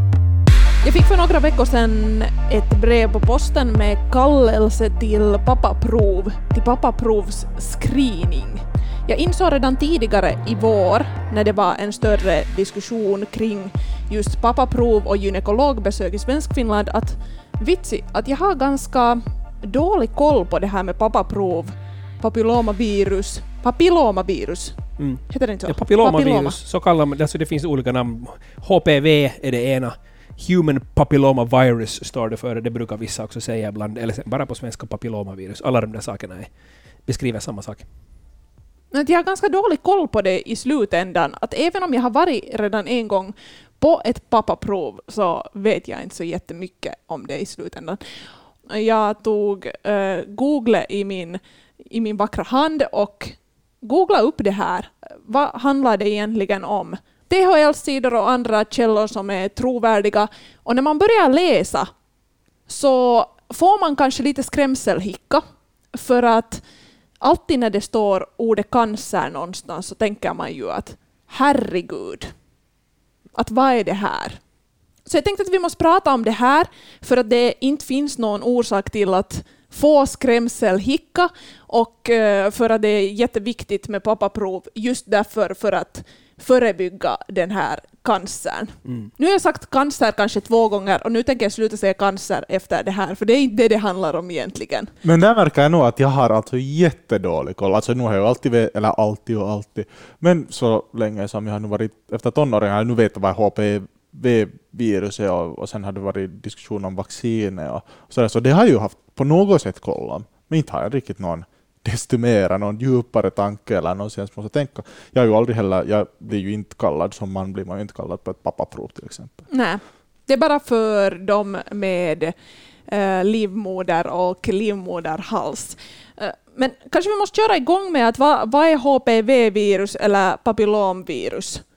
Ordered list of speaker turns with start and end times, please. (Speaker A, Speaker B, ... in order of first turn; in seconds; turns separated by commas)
Speaker A: 0.8-24.8, Speaker B: 25.0-36.5, Speaker A: 25.3-26.6, Speaker B: 37.0-37.8, Speaker A: 38.9-48.0, Speaker A: 48.7-61.9, Speaker A: 62.7-65.4, Speaker A: 65.9-66.6, Speaker A: 67.2-72.3, Speaker A: 73.4-74.4, Speaker A: 75.0-94.9, Speaker C: 95.0-119.4, Speaker A: 119.5-122.3, Speaker A: 122.9-131.6